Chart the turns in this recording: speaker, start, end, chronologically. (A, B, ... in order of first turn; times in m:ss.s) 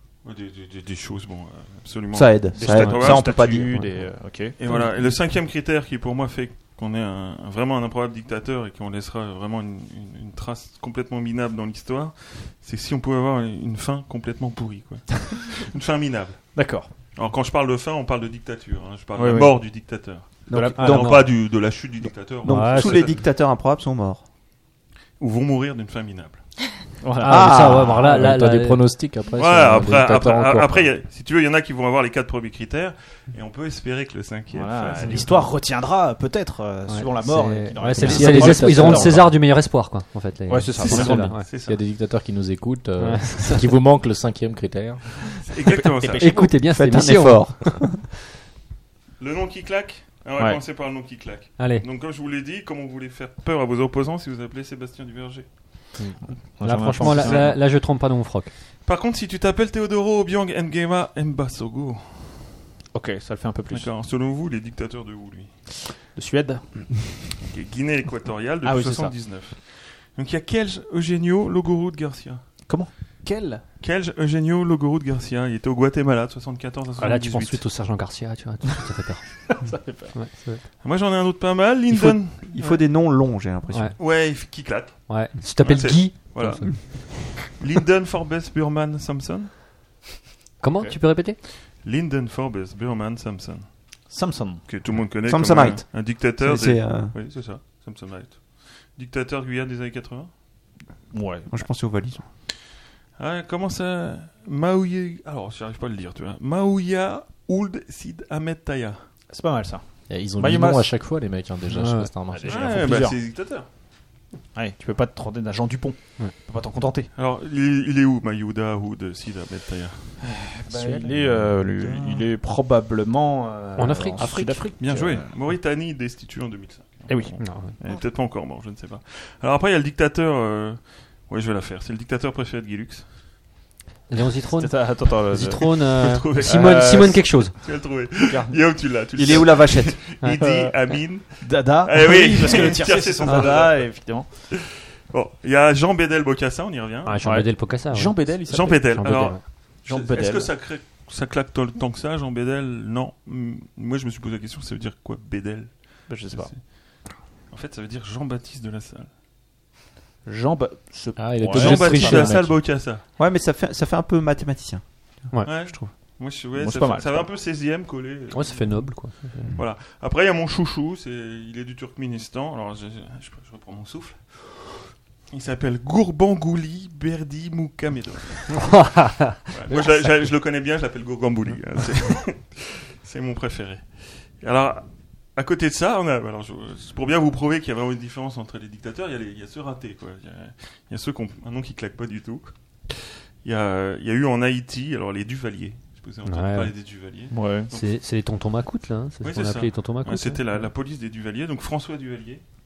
0:00.2-0:03.4 A
0:02.1-0:03.8 B
0:02.5-0:04.6 C
0:02.8-0:03.9 D
0:04.6-0:16.6 A
0:04.7-0:05.0 D
0:16.6-0:16.9 C
0:17.2-0:23.2 A
0:19.2-0:19.7 C
0:20.5-0:24.2 B
0:20.5-0:21.3 C
0:22.5-0:23.2 D
0:25.2-0:26.5 A
0:27.0-0:27.8 C
0:27.2-0:29.0 D
0:27.3-0:27.9 B
0:27.3-0:31.0 E
0:29.4-0:35.5 A
0:34.5-0:39.3 C
0:35.0-0:35.5 D
0:36.9-0:41.5 D
0:37.9-0:39.4 E
0:40.5-0:41.4 C
0:40.8-0:45.1 E
0:41.4-0:41.8 A
0:43.0-0:43.7 D
0:45.4-0:46.2 A
0:45.7-0:46.5 C
0:46.1-0:47.9 D
0:46.5-0:48.0 B
0:49.2-0:55.9 A
0:50.4-0:50.6 C
0:51.6-0:51.9 D
0:56.6-0:57.6 C
0:56.6-0:58.5 D
0:57.0-0:57.5 A
0:58.8-1:02.5 A
1:02.9-1:03.9 C
1:03.7-1:05.6 A
1:05.9-1:07.0 C
1:07.4-1:13.1 A
1:08.6-1:09.3 C
1:12.6-1:13.6 C
1:13.8-1:17.7 A
1:17.0-1:20.6 D
1:19.6-1:20.2 C
1:20.8-1:22.7 A
1:22.1-1:24.0 B
1:23.7-1:27.0 D
1:24.0-1:29.5 A
1:30.6-1:31.4 D
1:31.8-1:34.1 A
1:34.1-1:35.0 C
1:34.6-1:40.3 A
1:35.2-1:37.2 B
1:41.1-1:41.6 C
1:41.5-1:42.3 B
1:43.2-1:49.1 A
1:49.3-1:50.9 C
1:50.1-1:53.0 E
1:51.7-1:52.1 D
1:52.3-1:53.2 C
1:52.4-1:53.7 A
1:54.5-1:57.1 C
1:57.2-2:00.4 A
2:00.2-2:05.4 C
2:00.7-2:01.1 D
2:01.9-2:02.2 A
2:03.8-2:04.6 D
2:04.8-2:13.1 A
2:07.1-2:07.4 C
2:07.4-2:07.7 D
2:14.1-2:17.6 D
2:14.6-2:17.7 C
2:16.0-2:27.5 A
2:18.2-2:19.5 C
2:19.2-2:20.0 B
2:20.4-2:20.8 C
2:21.4-2:24.5 C
2:27.0-2:29.4 D
2:27.2-2:29.2 C
2:28.4-2:37.0 A
2:29.8-2:30.6 C
2:36.1-2:36.6 C
2:37.5-2:39.1 A
2:40.2-2:42.5 C
2:41.2-2:42.7 E
2:41.4-2:43.0 A
2:42.9-2:45.9 B
2:45.3-2:45.6 D
2:45.4-2:58.8 A
2:46.6-2:47.3 C
2:48.3-2:49.5 D
2:58.6-3:00.2 D
2:59.5-3:18.0 A
3:16.2-3:16.8 D
3:17.3-3:17.7 C
3:17.7-3:20.6 D
3:19.2-3:22.4 A